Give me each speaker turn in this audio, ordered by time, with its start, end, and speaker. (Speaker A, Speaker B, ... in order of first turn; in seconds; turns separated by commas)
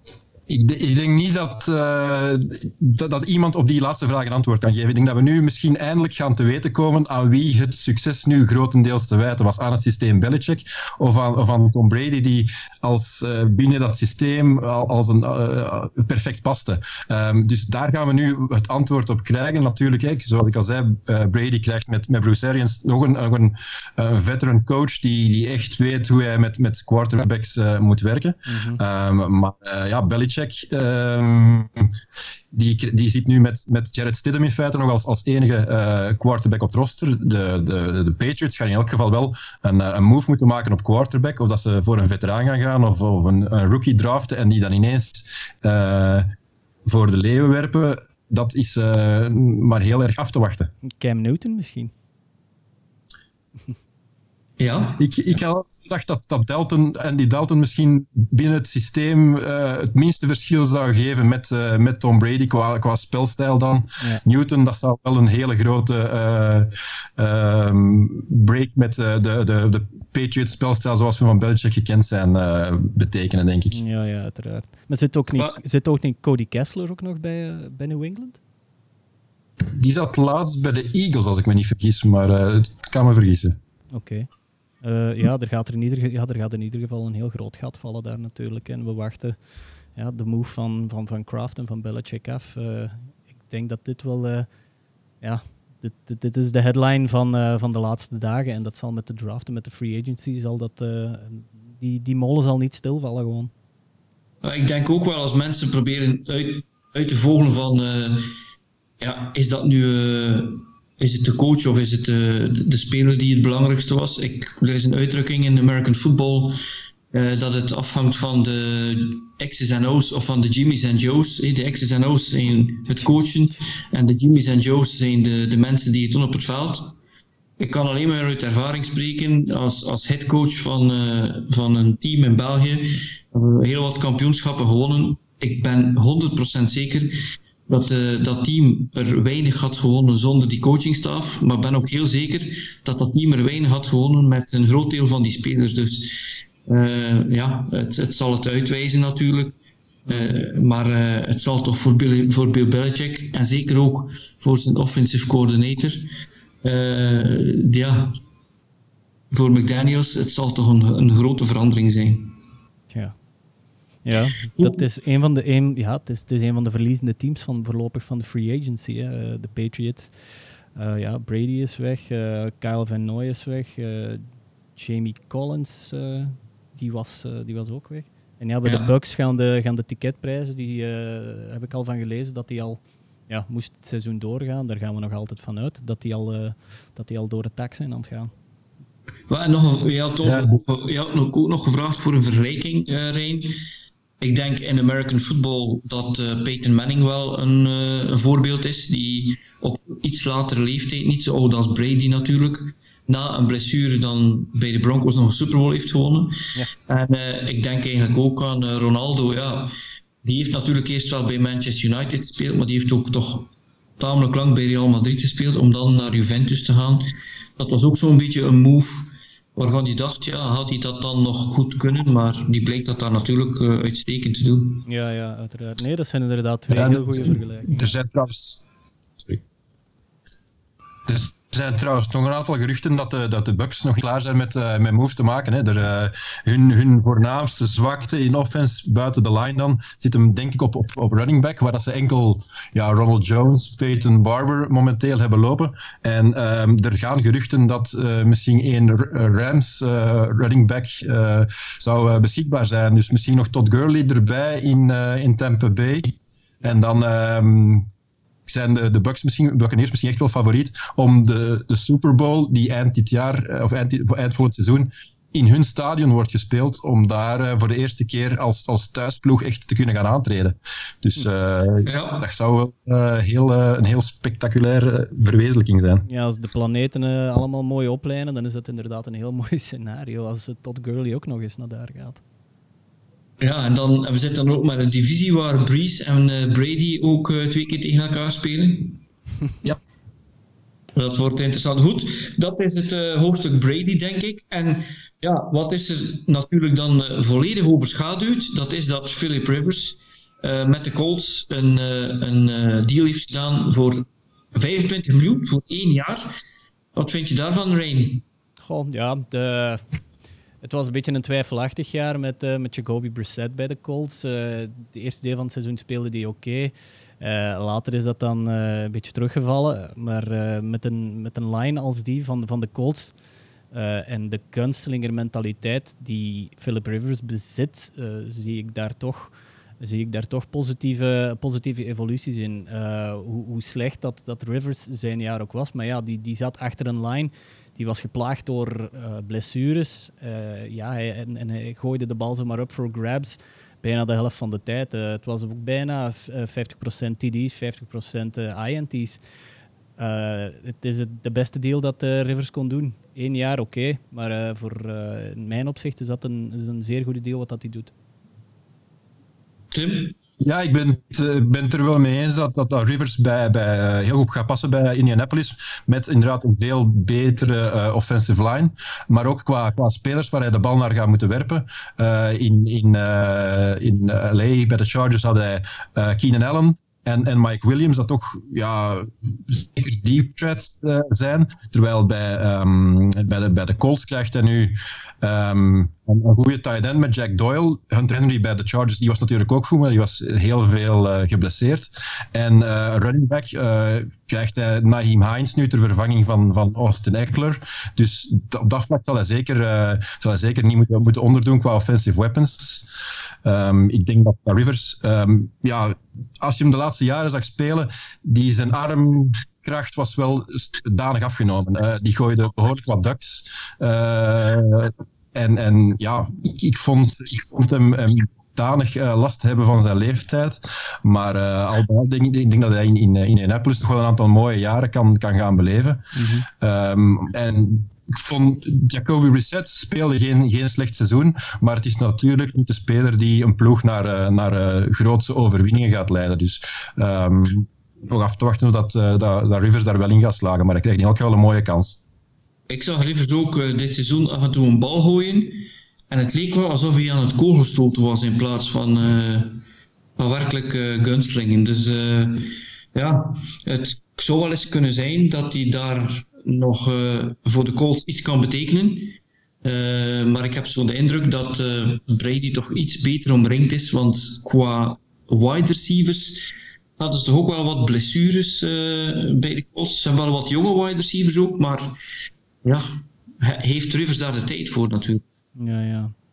Speaker A: 0.5-31.9, Speaker B: 28.5-28.8, Speaker A: 32.5-46.3, Speaker A: 46.9-50.7, Speaker B: 50.8-51.9, Speaker C: 54.6-55.0, Speaker A: 55.0-73.8, Speaker B: 73.7-78.4, Speaker A: 79.6-83.6, Speaker B: 83.9-84.3, Speaker B: 84.8-89.4, Speaker B: 89.9-94.5, Speaker B: 95.2-103.5, Speaker C: 104.4-108.3, Speaker C: 109.0-116.6, Speaker C: 117.1-126.9, Speaker B: 122.9-123.2, Speaker C: 127.6-137.1, Speaker C: 137.7-149.6, Speaker B: 150.1-150.3, Speaker C: 150.1-156.1, Speaker C: 156.6-158.2, Speaker C: 159.3-162.3, Speaker B: 162.9-163.2, Speaker B: 164.0-170.1, Speaker C: 164.5-164.8, Speaker B: 170.8-174.2, Speaker B: 174.8-188.3, Speaker C: 189.3-193.6, Speaker A: 190.2-190.6, Speaker C: 194.2-209.7, Speaker C: 210.2-217.1, Speaker C: 217.6-224.8, Speaker B: 224.8-227.9, Speaker A: 226.7-228.7, Speaker A: 231.1-257.9, Speaker A: 258.4-276.1, Speaker C: 271.8-272.3, Speaker B: 276.1-282.2, Speaker C: 283.4-289.0, Speaker C: 290.9-306.3, Speaker C: 306.9-308.2, Speaker B: 308.6-309.8, Speaker B: 310.6-323.1, Speaker B: 323.7-349.2, Speaker B: 350.0-357.9, Speaker C: 359.7-360.1, Speaker A: 360.4-442.0, Speaker B: 426.1-426.5, Speaker C: 442.7-449.6, Speaker C: 450.2-471.9, Speaker C: 472.6-475.2, Speaker B: 475.6-476.1